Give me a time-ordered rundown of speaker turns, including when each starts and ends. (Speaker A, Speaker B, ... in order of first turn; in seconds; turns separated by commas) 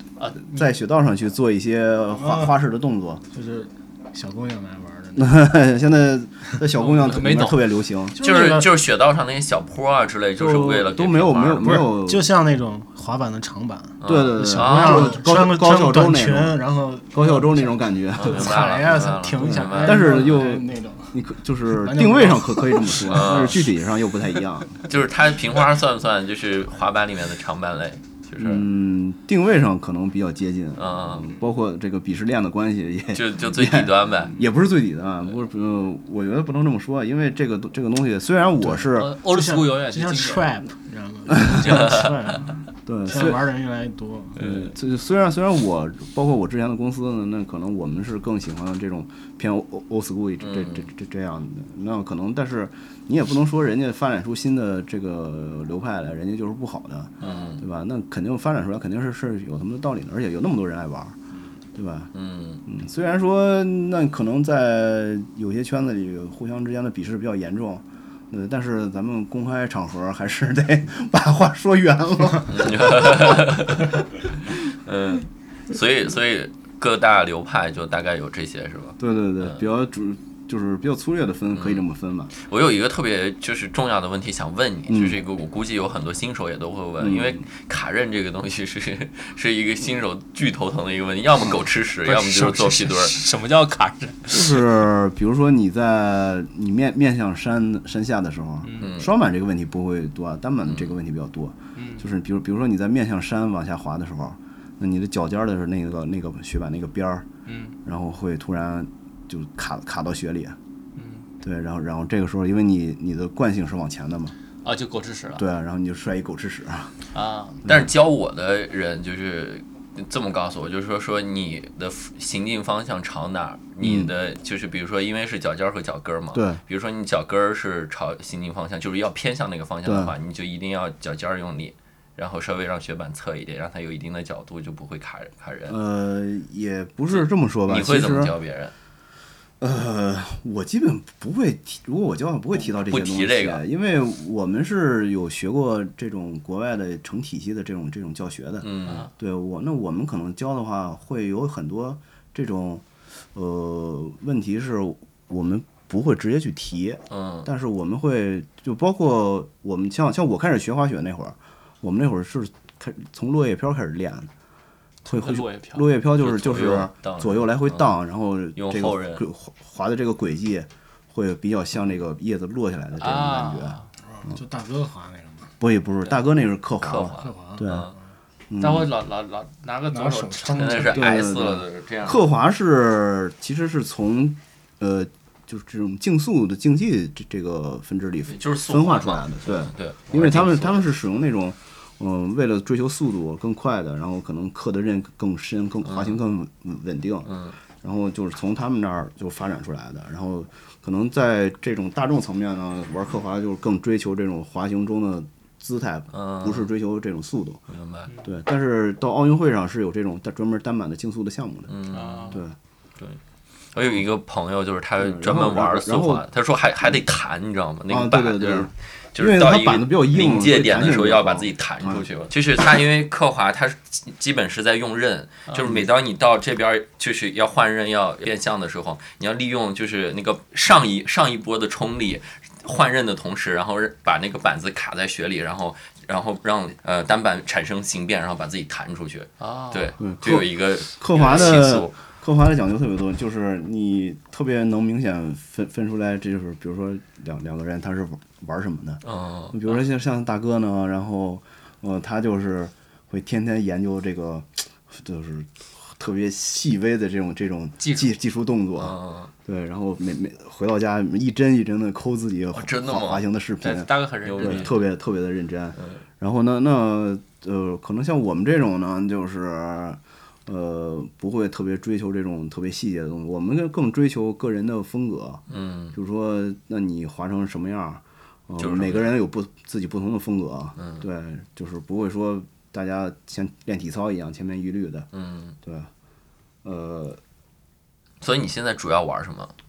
Speaker A: 0.2-0.7, Speaker B: 0.4-3.2, Speaker C: 2.1-2.5, Speaker C: 3.3-5.5, Speaker B: 5.2-8.2, Speaker A: 6.7-7.7, Speaker C: 8.1-8.7, Speaker D: 8.2-11.8, Speaker B: 10.4-12.3, Speaker C: 11.6-23.1, Speaker D: 14.0-15.2, Speaker B: 14.0-16.6, Speaker B: 17.1-18.6, Speaker D: 18.1-20.4, Speaker B: 19.4-24.8, Speaker D: 23.0-23.7, Speaker D: 24.9-28.6, Speaker B: 28.4-39.1, Speaker D: 30.8-31.3, Speaker D: 33.1-34.4, Speaker A: 38.8-40.5, Speaker C: 39.2-44.4, Speaker D: 41.7-42.1, Speaker B: 42.9-43.4, Speaker B: 44.4-61.1, Speaker D: 44.4-44.7, Speaker D: 50.4-50.8, Speaker D: 57.2-57.6, Speaker B: 61.7-62.1, Speaker D: 62.1-62.6, Speaker B: 62.6-73.6, Speaker D: 72.5-79.5, Speaker B: 79.0-82.3, Speaker D: 81.5-81.8, Speaker D: 82.4-93.2, Speaker B: 84.9-85.2, Speaker B: 87.0-87.4, Speaker A: 92.0-94.6, Speaker B: 94.3-107.3, Speaker A: 98.6-99.0, Speaker D: 98.8-99.1, Speaker A: 101.8-102.0, Speaker A: 107.5-107.8, Speaker B: 107.8-110.5, Speaker A: 111.0-111.2, Speaker B: 111.4-114.3, Speaker A: 114.6-115.4, Speaker B: 115.4-116.9, Speaker A: 117.1-117.6, Speaker D: 117.6-135.8, Speaker B: 123.8-124.1, Speaker B: 126.3-126.6, Speaker B: 129.8-130.1, Speaker B: 135.7-138.3, Speaker D: 137.1-138.7, Speaker B: 139.6-164.3, Speaker D: 142.7-143.6, Speaker D: 148.6-149.1, Speaker D: 157.1-157.5, Speaker B: 165.1-173.8, Speaker A: 165.1-165.9, Speaker D: 166.2-167.9, Speaker D: 168.6-169.2, Speaker A: 173.0-173.9, Speaker C: 174.1-175.5, Speaker B: 175.6-177.9, Speaker D: 176.8-177.9, Speaker C: 177.2-177.7, Speaker B: 178.5-178.9, Speaker A: 178.6-181.0, Speaker C: 179.9-181.0, Speaker D: 180.5-182.2, Speaker B: 180.9-207.6, Speaker D: 188.3-190.8, Speaker D: 195.9-196.2, Speaker D: 197.3-197.5, Speaker D: 206.1-206.7, Speaker D: 207.7-208.1, Speaker B: 208.2-211.8, Speaker D: 211.7-212.4, Speaker A: 211.9-212.4, Speaker D: 213.7-241.9, Speaker B: 215.0-216.2, Speaker B: 217.9-222.1, Speaker A: 239.4-239.9, Speaker B: 240.0-285.1, Speaker D: 249.0-249.6, Speaker A: 257.8-258.1, Speaker D: 258.8-259.3, Speaker D: 262.5-263.2, Speaker A: 263.6-264.8, Speaker D: 264.2-264.8, Speaker D: 275.5-275.9, Speaker D: 278.6-279.1, Speaker D: 280.8-281.0, Speaker D: 285.1-285.6, Speaker B: 285.6-285.9, Speaker B: 286.6-287.2, Speaker D: 288.2-289.5